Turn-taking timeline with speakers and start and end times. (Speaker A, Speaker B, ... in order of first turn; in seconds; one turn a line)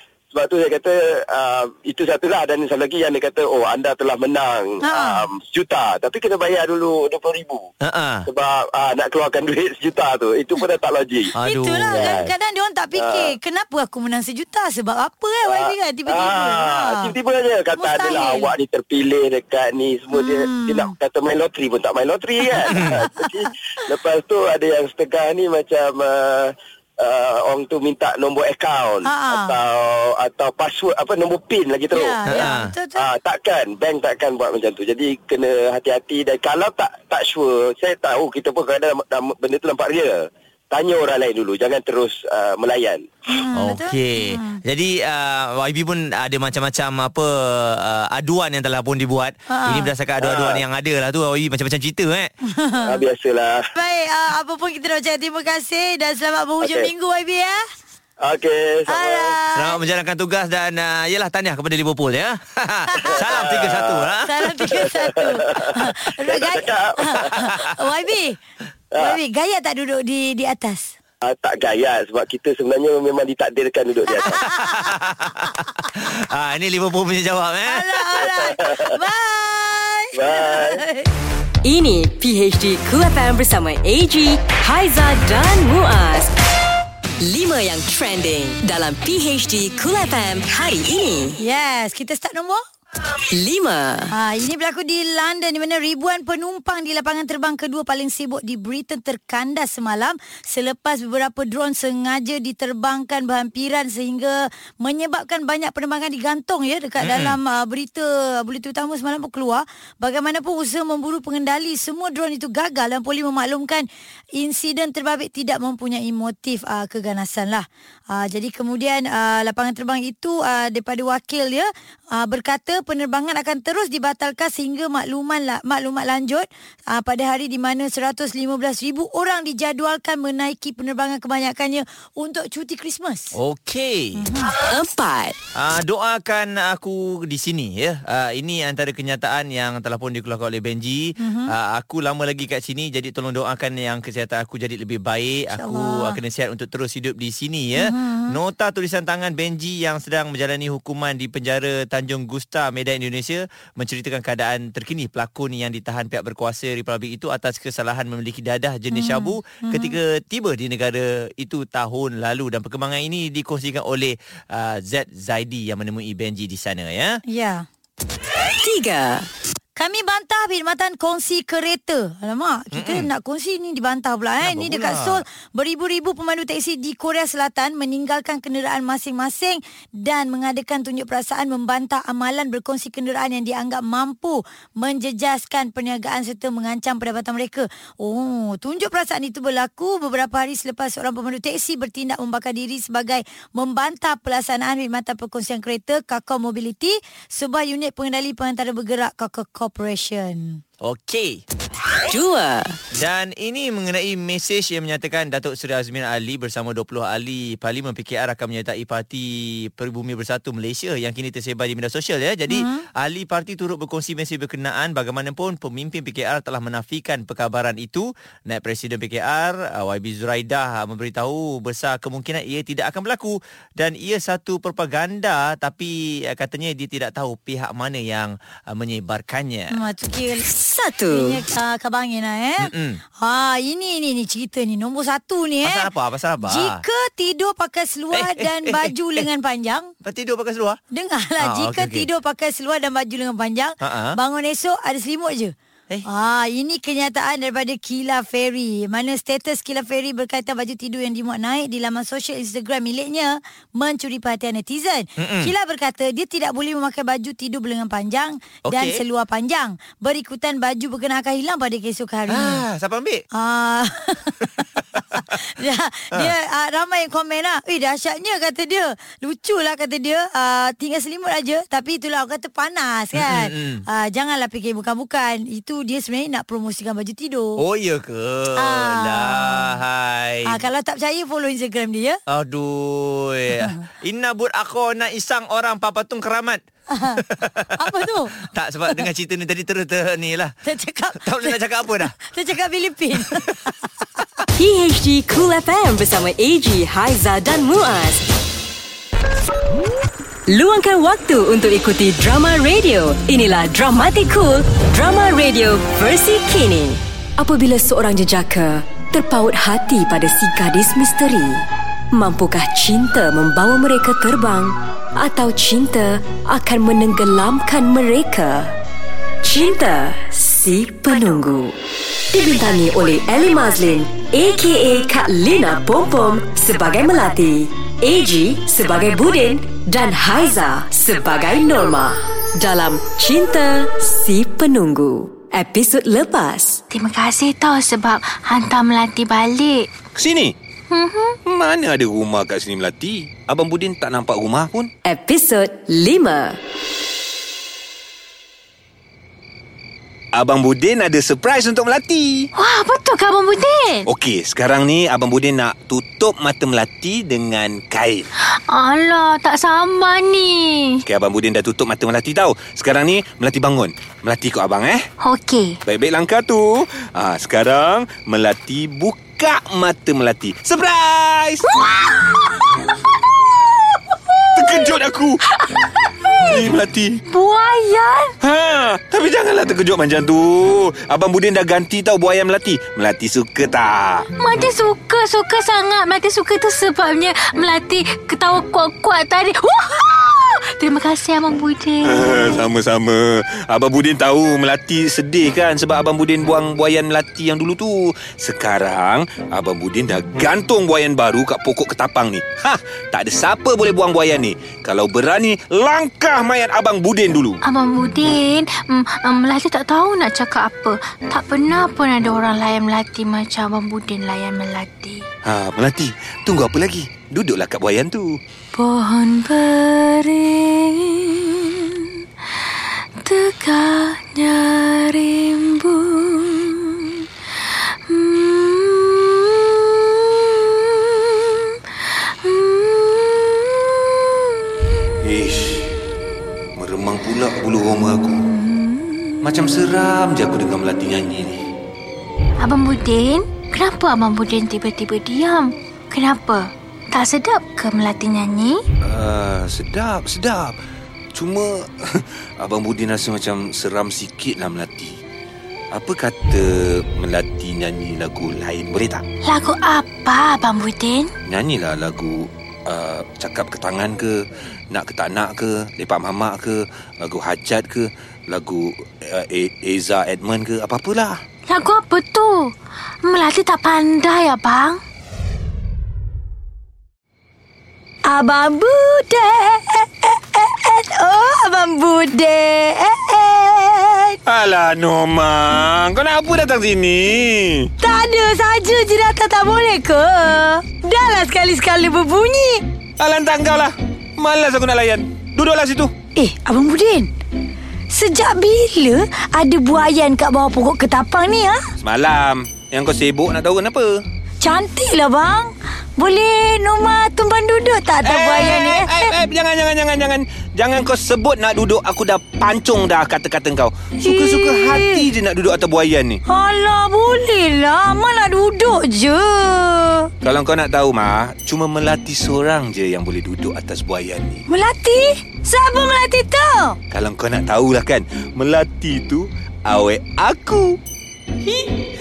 Speaker A: 0.3-7.7
Speaker B: 4.8-5.3
Speaker C: 7.8-8.3
Speaker A: 8.3-11.3
Speaker C: 11.4-12.1
Speaker B: 11.4-17.1
Speaker A: 11.9-12.3
Speaker A: 12.9-13.3
Speaker A: 15.5-43.0
Speaker B: 17.8-18.5
Speaker B: 20.1-20.9
Speaker B: 22.4-23.5
Speaker B: 29.0-29.5
Speaker B: 31.9-33.1
Speaker C: 32.3-32.7
Speaker B: 43.3-44.6
Speaker C: 43.5-52.3
Speaker B: 49.5-49.9
Speaker A: 50.2-50.6
Speaker B: 52.4-53.0
Speaker A: 52.8-53.7
Speaker B: 53.7-57.6
Speaker A: 56.6-56.9
Speaker A: 58.2-59.3
Speaker B: 58.9-59.8
Speaker C: 59.5-64.3
Speaker B: 62.9-63.2
Speaker A: 63.0-67.7
Speaker B: 64.2-68.4
Speaker B: 69.0-70.9
Speaker A: 71.2-74.4
Speaker B: 74.2-74.9
Speaker C: 74.6-77.8
Speaker B: 77.7-81.1
Speaker A: 78.2-79.0
Speaker A: 80.1-80.8
Speaker D: 81.6-86.3
Speaker D: 87.2-91.4
Speaker B: 91.4-92.6
Speaker D: 93.3-94.1
Speaker B: 94.1-113.8
Speaker C: 107.0-107.4
Speaker B: 114.4-133.4
Speaker C: 133.3-134.2
Speaker B: 134.2-134.5
Speaker D: 134.6-135.3
Speaker C: 135.5-167.2
Speaker B: 141.2-141.5
Speaker B: 145.5-146.2
Speaker B: 147.8-148.4
Speaker B: 158.9-160.0
Speaker B: 167.3-167.7
Speaker D: 168.4-169.3
Speaker B: 169.8-200.6
Speaker C: 172.7-173.1
Speaker C: 174.4-175.2
Speaker C: 200.8-201.4
Speaker D: 202.1-202.8
Speaker C: 202.9-229.8
Speaker B: 212.5-212.8
Speaker B: 229.7-230.5
Speaker D: 230.4-231.4
Speaker B: 231.1-235.9
Speaker C: 232.6-233.0
Speaker C: 235.6-236.8
Speaker B: 236.4-239.9
Speaker C: 238.1-239.2
Speaker C: 240.0-240.8
Speaker B: 240.9-245.5
Speaker C: 241.4-242.1
Speaker C: 243.8-244.2
Speaker B: 246.1-262.6
Speaker C: 255.2-255.5
Speaker C: 258.7-259.0
Speaker C: 262.3-263.2
Speaker B: 263.3-277.6
Speaker C: 273.1-273.8
Speaker C: 277.6-280.6
Speaker B: 278.6-279.8
Speaker B: 280.4-282.2
Speaker C: 282.3-286.6
Speaker B: 286.9-288.3
Speaker C: 287.2-290.5
Speaker B: 290.6-291.6
Speaker C: 291.2-292.1
Speaker B: 292.2-293.6
Speaker C: 293.2-293.5
Speaker D: 294.6-298.2
Speaker D: 300.5-318.7
Speaker D: 319.4-321.8
Speaker D: 322.3-336.8
Speaker E: 336.9-339.9
Speaker F: 340.1-340.5
Speaker E: 340.9-341.4
Speaker F: 341.4-344.9
Speaker D: 345.0-346.6
Speaker F: 350.3-352.5
Speaker E: 352.5-354.1
Speaker F: 354.1-358.2
Speaker E: 358.4-361.0
Speaker F: 361.1-365.1
Speaker E: 365.2-365.8
Speaker F: 365.9-371.7
Speaker E: 371.8-372.4
Speaker E: 374.6-374.9
Speaker F: 374.6-375.4
Speaker E: 375.6-376.7
Speaker F: 376.5-377.2
Speaker E: 377.3-378.3
Speaker F: 378.4-384.2
Speaker E: 384.4-392.7
Speaker F: 392.0-407.6
Speaker E: 407.6-415.2
Speaker F: 415.4-418.4
Speaker E: 418.7-422.1
Speaker E: 423.2-434.5
Speaker F: 435.2-436.0
Speaker F: 436.8-438.4
Speaker E: 438.4-439.5
Speaker F: 439.4-441.6
Speaker E: 442.6-448.8
Speaker F: 449.0-450.8
Speaker F: 451.3-455.2
Speaker F: 455.9-459.2
Speaker E: 459.4-461.3
Speaker F: 461.4-471.4
Speaker E: 471.7-475.0
Speaker B: 478.3-484.4
Speaker F: 484.4-487.9
Speaker B: 488.0-492.9
Speaker F: 493.2-496.1
Speaker B: 496.4-497.3
Speaker B: 498.1-501.8
Speaker F: 502.0-504.2
Speaker B: 504.6-509.3
Speaker F: 508.2-516.4
Speaker B: 514.2-515.2
Speaker B: 516.5-520.3
Speaker F: 520.4-524.6
Speaker B: 524.7-527.0
Speaker F: 527.1-531.0